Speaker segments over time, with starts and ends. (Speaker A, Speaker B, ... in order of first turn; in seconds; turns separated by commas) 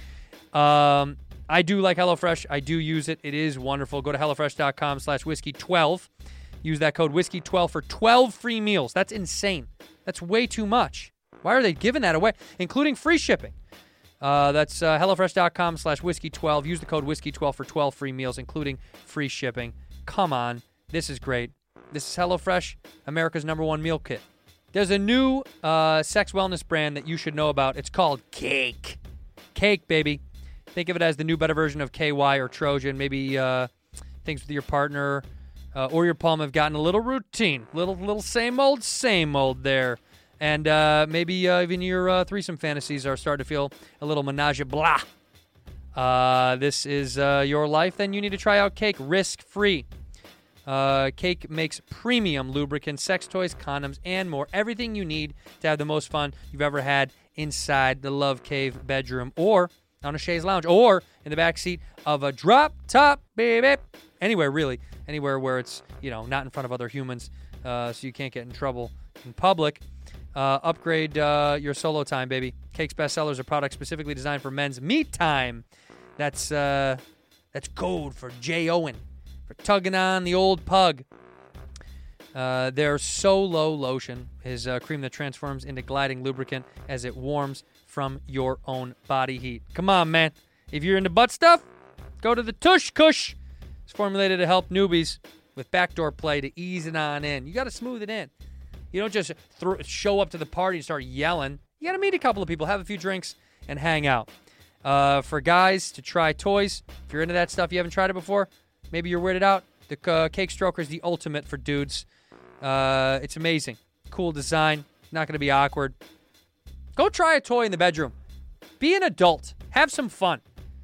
Speaker A: 0.5-6.1, Speaker A: 6.6-13.5, Speaker A: 14.2-29.0, Speaker A: 29.5-30.2, Speaker A: 30.7-33.7, Speaker A: 34.2-45.1, Speaker A: 45.9-49.9, Speaker A: 50.6-69.8, Speaker A: 70.3-75.6, Speaker A: 76.2-77.0, Speaker A: 77.5-81.0, Speaker A: 82.3-91.6, Speaker A: 92.2-93.3, Speaker A: 93.9-98.3, Speaker A: 98.9-104.3, Speaker A: 104.8-112.0, Speaker A: 112.6-116.0, Speaker A: 117.0-118.1, Speaker A: 118.8-120.4